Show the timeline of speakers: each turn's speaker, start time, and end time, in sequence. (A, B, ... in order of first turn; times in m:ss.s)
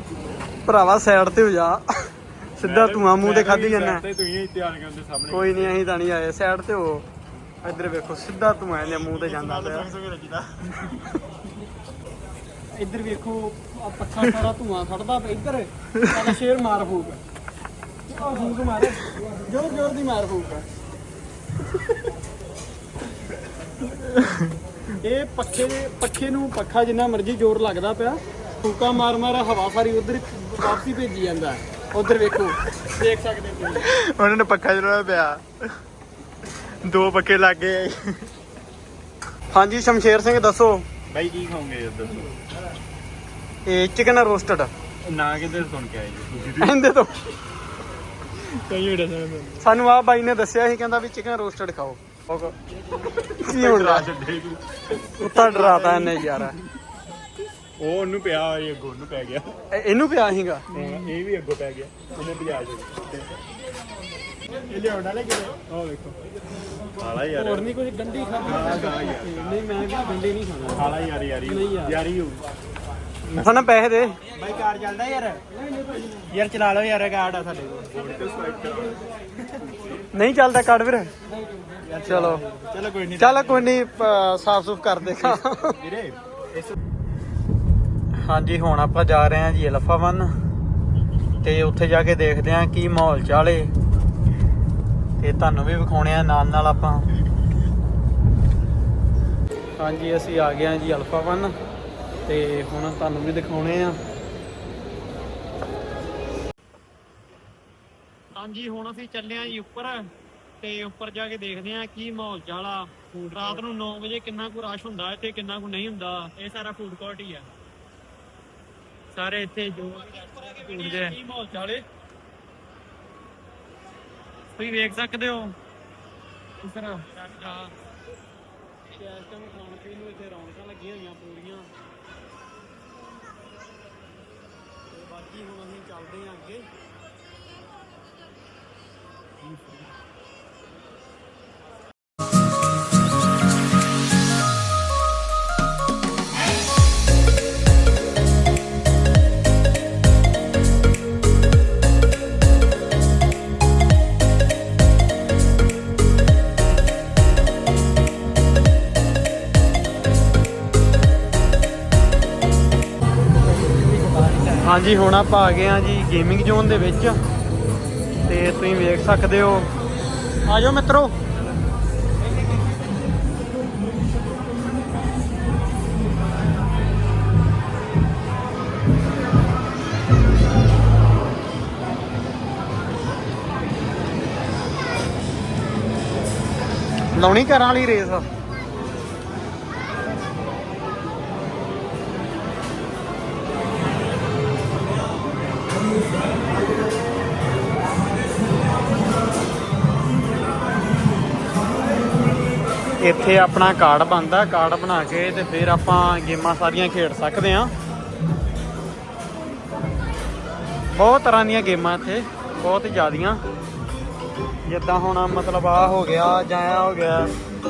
0:00.6-0:04.0 A
0:02.6-0:05.8 B
0:05.3-0:07.1 A
0:07.6-0:09.9 A
0:09.0-0:11.0 B
0:12.7-0:17.2 A
0:18.1-0:20.7 A
0:24.9-0:33.6 A
0:33.6-0:35.6 B
0:36.5-0:38.3 B
0:39.5-0:40.9 A
0:41.1-0:42.3 B
0:43.7-0:44.7 A
0:45.0-0:46.8 B
0:46.6-0:47.2 A
0:48.4-0:49.6 B
0:49.6-0:52.6 A
0:53.2-0:54.1 A
0:53.4-0:54.6 B
0:55.2-0:56.6 A
0:55.2-0:56.2 B
0:57.8-0:59.5 B
0:59.7-1:00.7 A
1:00.7-1:03.4 B
1:04.6-1:06.2 B
1:07.0-1:07.7 B
1:07.3-1:10.9 A
1:08.4-1:09.5 B
1:10.8-1:12.4 B
1:11.4-1:12.0 A
1:13.3-1:14.2 A
1:14.4-1:15.4 B
1:16.1-1:20.0 B
1:20.1-1:21.1 A
1:21.8-1:23.7 B
1:22.1-1:22.4 A
1:23.2-1:25.8 A
1:25.2-1:26.8 B
1:28.2-1:30.3 A
1:31.4-1:33.7 A
1:35.2-1:37.1 A
1:39.8-1:41.6 A
1:42.3-1:44.0 A
1:48.4-1:50.1 A
1:50.6-1:57.5 A
1:59.2-2:01.9 A
2:04.6-2:05.6 A
2:06.6-2:07.7 A
2:08.9-2:11.7 A
2:14.9-2:16.7 A
2:44.0-2:44.3 B
2:44.4-2:47.2 A
2:48.3-2:49.7 A
2:50.5-2:51.2 A
3:07.2-3:08.3 A
3:23.0-3:27.7 A
3:30.9-3:33.4 A
3:34.7-3:37.3 A